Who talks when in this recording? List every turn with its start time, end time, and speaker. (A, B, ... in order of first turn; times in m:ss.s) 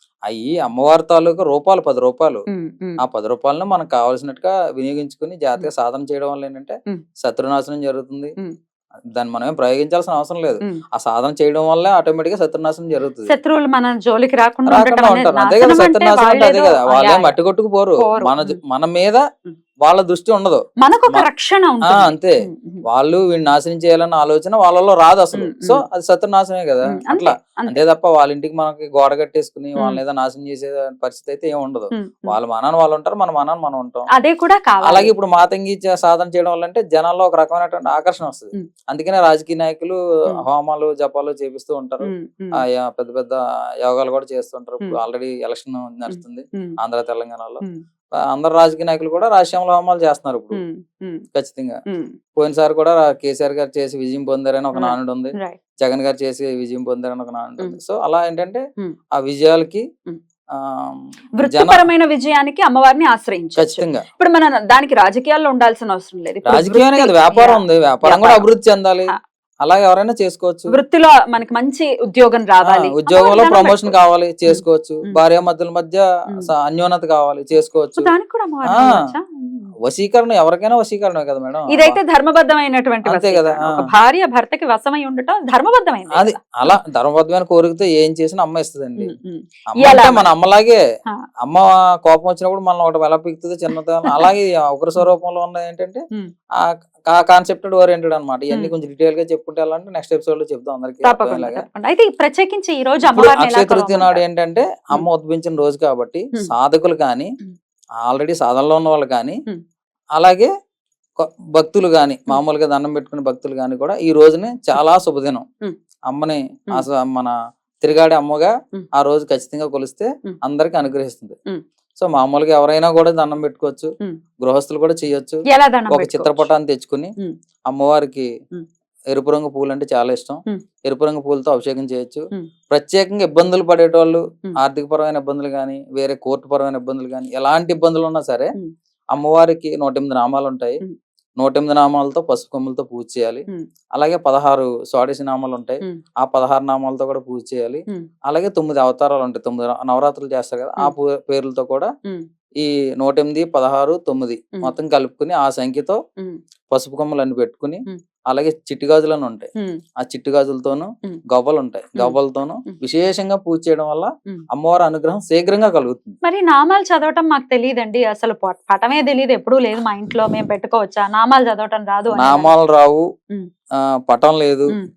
0:00.3-0:02.4 A
0:02.5-0:03.0 B
0:03.0-0:08.3 A
0:09.1-0:13.3 A
0:13.3-0:17.4 B
0:14.7-0:19.2 A
0:18.0-0:18.6 B
0:19.8-0:20.6 A
0:20.8-0:22.8 B
0:21.9-0:34.1 A
0:25.4-0:25.8 B
0:26.9-0:27.8 B
0:31.9-0:32.4 B
0:34.1-0:35.1 B
0:34.8-0:47.6 A
0:42.0-0:42.6 B
0:46.1-0:46.7 B
0:48.2-0:50.6 A
0:50.5-0:51.2 B
0:51.3-0:51.8 A
0:51.9-0:52.2 B
0:52.4-0:58.6 A
0:54.7-0:55.6 B
0:59.1-0:59.8 A
1:00.5-1:01.9 A
1:01.4-1:08.4 B
1:03.6-1:04.0 A
1:06.4-1:10.8 A
1:10.7-1:15.2 B
1:12.6-1:18.1 A
1:18.0-1:19.7 B
1:19.8-1:22.0 A
1:21.7-1:26.8 B
1:23.0-1:23.8 A
1:26.1-1:29.1 A
1:29.0-1:30.2 B
1:29.7-1:30.8 A
1:31.4-1:36.0 A
1:34.0-1:34.3 B
1:36.6-1:41.6 A
1:41.0-1:44.2 B
1:43.1-1:47.3 A
1:48.0-1:49.4 A
1:50.2-1:50.5 A
1:51.2-1:55.4 A
1:56.1-2:01.4 A
2:02.0-2:07.1 A
2:05.5-2:06.5 B
2:07.7-2:08.3 A
2:09.1-2:18.5 A
2:19.1-2:20.8 A
2:21.4-2:31.9 A
2:32.6-2:36.0 A
2:36.7-2:39.5 A
2:40.0-2:46.2 A
2:42.0-2:42.8 B
2:46.2-2:52.5 B
2:52.1-2:53.0 A
2:53.8-2:54.8 A